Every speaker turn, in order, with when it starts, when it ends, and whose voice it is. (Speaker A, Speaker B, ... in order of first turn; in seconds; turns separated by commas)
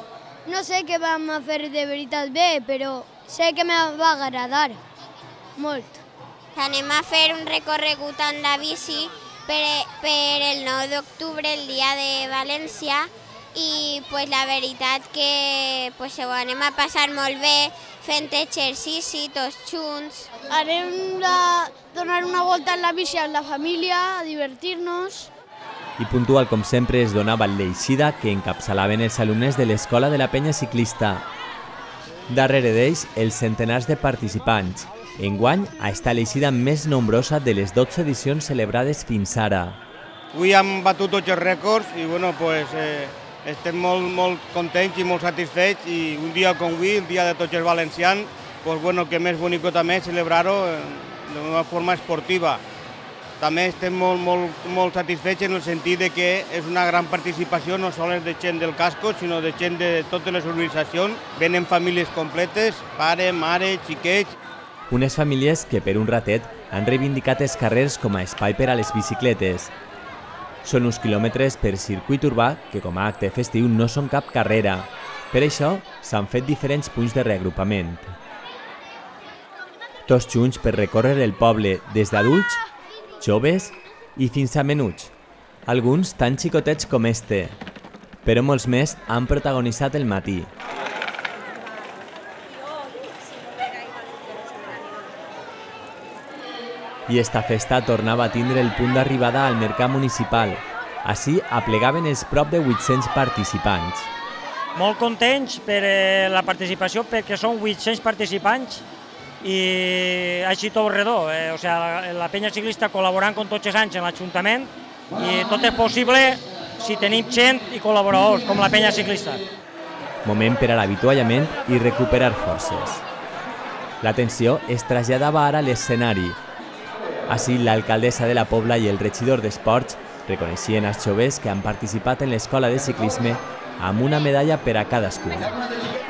Speaker A: 0.5-4.7, Speaker A: 5.6-6.0, Speaker B: 6.5-20.3, Speaker A: 20.5-25.3, Speaker C: 26.0-31.2, Speaker C: 32.3-39.8, Speaker D: 40.3-52.6, Speaker D: 53.4-64.3, Speaker C: 64.9-69.7, Speaker C: 70.6-78.1, Speaker C: 80.1-82.6, Speaker C: 83.2-85.1, Speaker C: 85.7-87.6, Speaker C: 88.2-90.5, Speaker C: 97.1-104.1, Speaker E: 104.8-108.8, Speaker E: 109.4-119.4, Speaker C: 120.2-123.0, Speaker C: 124.0-126.4, Speaker C: 127.3-135.5